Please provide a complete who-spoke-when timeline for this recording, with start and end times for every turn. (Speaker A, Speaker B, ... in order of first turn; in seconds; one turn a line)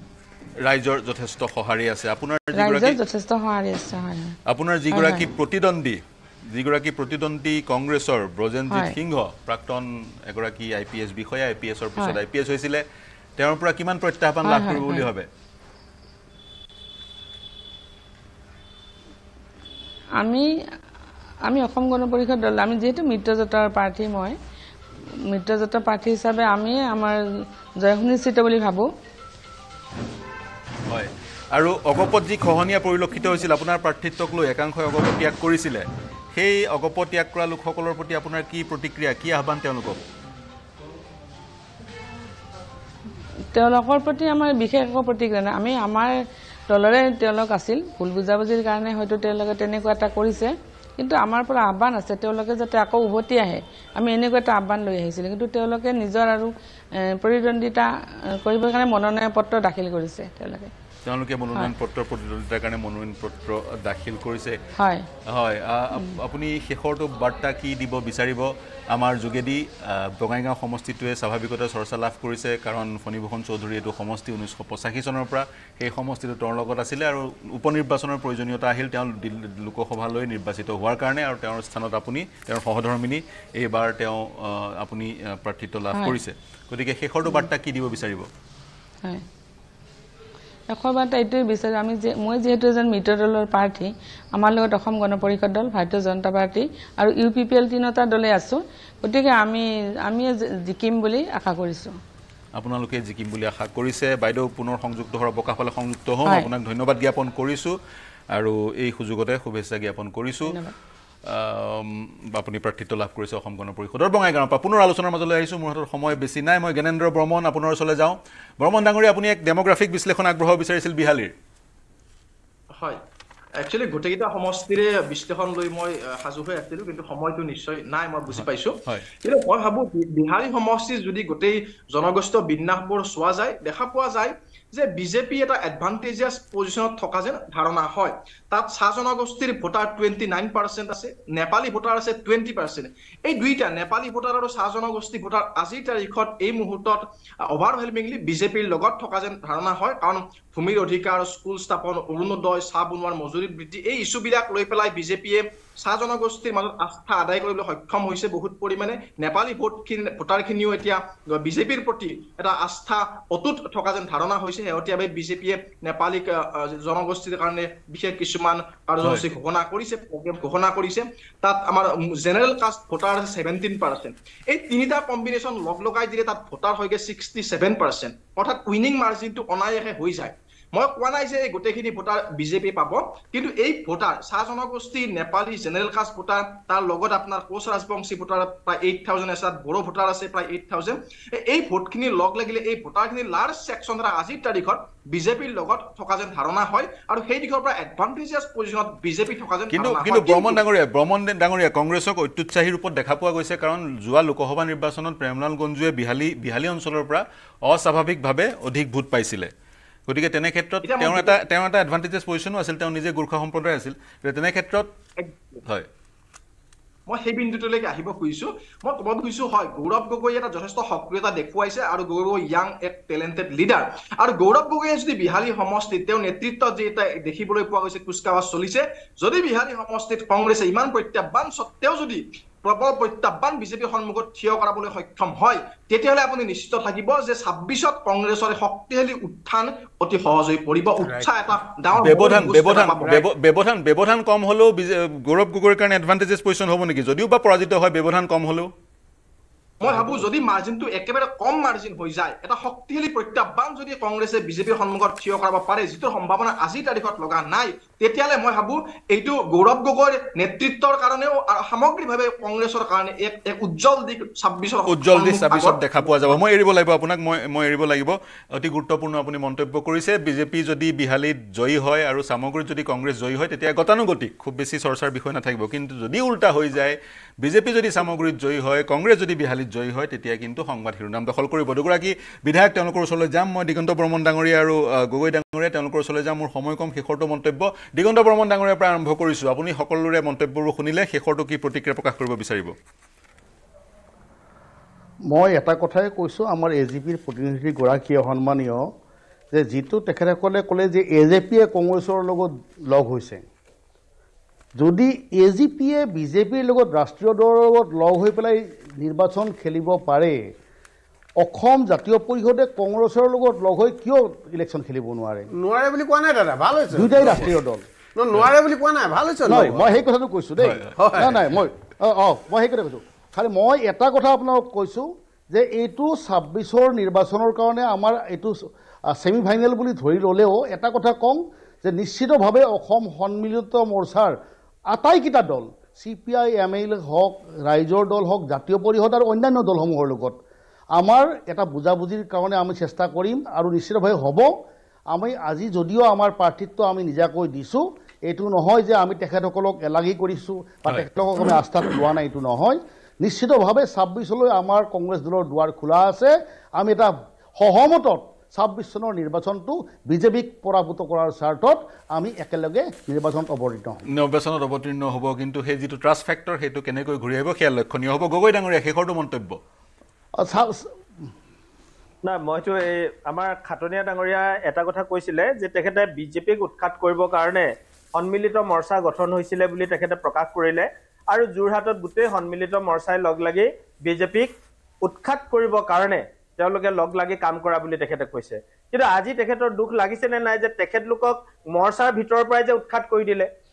Speaker A: 0.6-3.0
Speaker B: 2.5-4.4
Speaker A: 4.5-12.8
Speaker B: 4.9-5.3
Speaker B: 8.7-9.0
Speaker A: 13.4-15.3
Speaker B: 14.4-15.1
Speaker B: 20.2-20.5
Speaker B: 21.5-24.4
Speaker B: 25.3-27.2
Speaker B: 27.8-28.9
Speaker A: 30.9-40.0
Speaker B: 43.5-46.2
Speaker B: 46.7-60.7
Speaker A: 61.0-64.6
Speaker B: 64.8-65.1
Speaker A: 65.3-88.3
Speaker B: 85.9-86.2
Speaker B: 90.7-101.9
Speaker A: 102.6-107.7
Speaker B: 106.2-106.5
Speaker A: 108.3-110.6
Speaker B: 110.5-110.7
Speaker A: 111.3-121.3
Speaker C: 123.6-200.6
Speaker A: 128.3-129.1
Speaker A: 199.7-209.5
Speaker A: 210.1-214.9
Speaker C: 210.8-211.4
Speaker C: 215.2-215.6
Speaker C: 217.1-243.3
Speaker D: 241.0-241.6
Speaker A: 241.9-248.7
Speaker C: 249.8-266.4
Speaker D: 249.9-250.3
Speaker A: 264.9-292.8
Speaker E: 295.3-298.9
Speaker E: 299.5-303.4
Speaker E: 304.8-310.4
Speaker E: 311.4-315.5
Speaker D: 315.5-317.5
Speaker E: 316.9-317.9
Speaker D: 318.2-320.0
Speaker E: 319.4-328.6
Speaker A: 320.6-321.5
Speaker D: 321.0-321.4
Speaker E: 329.1-334.4
Speaker E: 334.9-340.4
Speaker E: 341.0-344.5
Speaker E: 345.1-364.0
Speaker A: 364.1-369.6
Speaker E: 370.4-370.9
Speaker F: 372.2-393.5